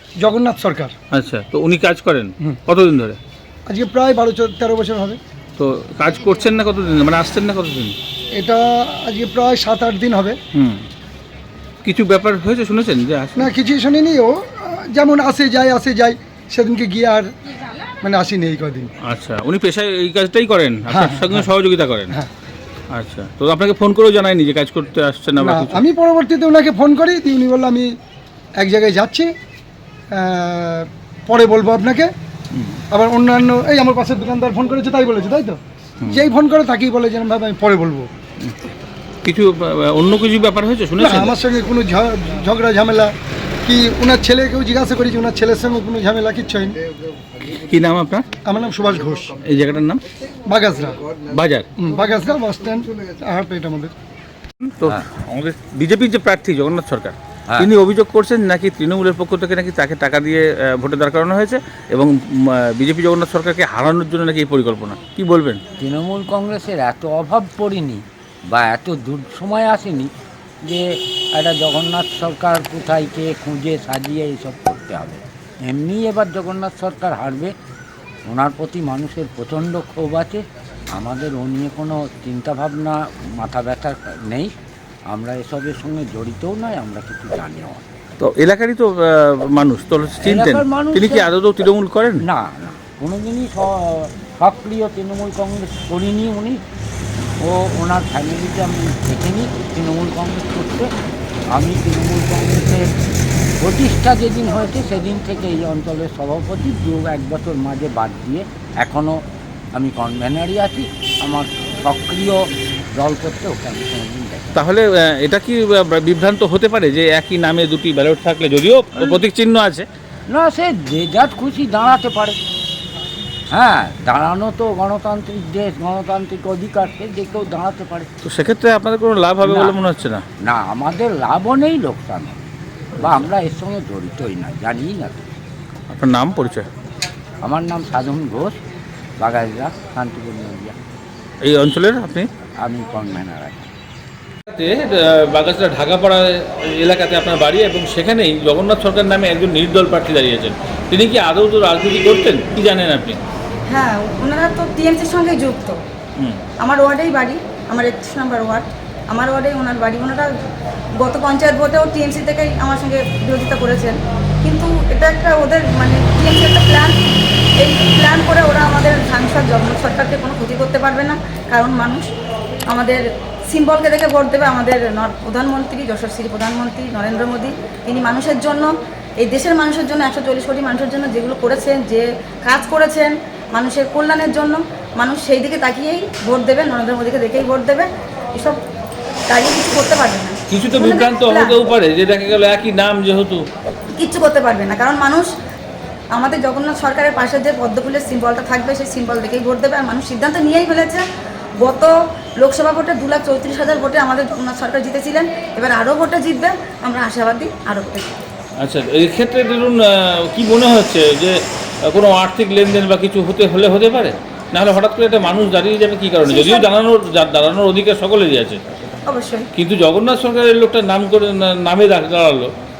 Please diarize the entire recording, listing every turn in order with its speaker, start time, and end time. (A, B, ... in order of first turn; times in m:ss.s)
0:00.2-0:00.9 A
0:01.1-0:03.2 B
0:03.7-0:05.2 A
0:05.6-0:08.0 B
0:08.3-0:10.4 A
0:10.6-0:10.8 B
0:11.8-0:13.5 B
0:13.4-0:17.3 A
0:18.0-0:18.9 A
0:19.0-0:22.1 B
0:20.9-0:21.5 A
0:22.9-0:25.8 B
0:25.4-0:27.9 A
0:28.6-0:29.3 A
0:30.1-0:32.1 A
0:32.5-0:32.8 B
0:32.9-0:38.1 A
0:36.0-0:36.3 B
0:39.2-0:41.4 B
0:41.0-0:43.1 A
0:43.6-0:46.8 A
0:47.5-0:48.2 B
0:48.4-0:49.3 A
0:49.4-0:50.0 B
0:50.5-0:51.0 A
0:51.3-0:51.7 B
0:51.8-0:53.9 A
0:54.6-1:05.6 B
1:05.8-1:10.1 C
1:10.6-1:17.5 C
1:18.3-1:24.5 C
1:25.1-1:27.9 C
1:28.2-1:32.2 B
1:30.2-1:31.3 C
1:32.2-1:36.6 C
1:37.4-1:40.9 C
1:41.5-1:42.9 C
1:43.6-1:49.2 C
1:49.7-1:54.6 C
1:54.5-1:59.8 B
1:59.0-1:59.2 C
2:00.3-2:02.4 C
2:03.5-2:08.1 C
2:08.2-2:10.2 B
2:09.4-2:09.8 C
2:10.4-2:15.3 C
2:13.0-2:13.2 B
2:15.9-2:16.7 B
2:17.4-2:18.6 C
2:19.2-2:20.8 C
2:21.4-2:22.3 B
2:22.6-2:23.7 C
2:24.5-2:33.2 B
2:33.7-2:35.8 D
2:36.6-2:40.3 D
2:41.0-2:46.9 D
2:47.6-2:52.1 D
2:52.7-3:08.6 D
3:09.3-3:11.6 D
3:10.5-3:13.4 B
3:14.0-3:15.3 D
3:16.1-3:21.0 D
3:21.6-3:28.2 D
3:28.6-3:38.7 B
3:36.2-3:36.7 D
3:39.0-3:39.5 D
3:39.6-3:42.5 B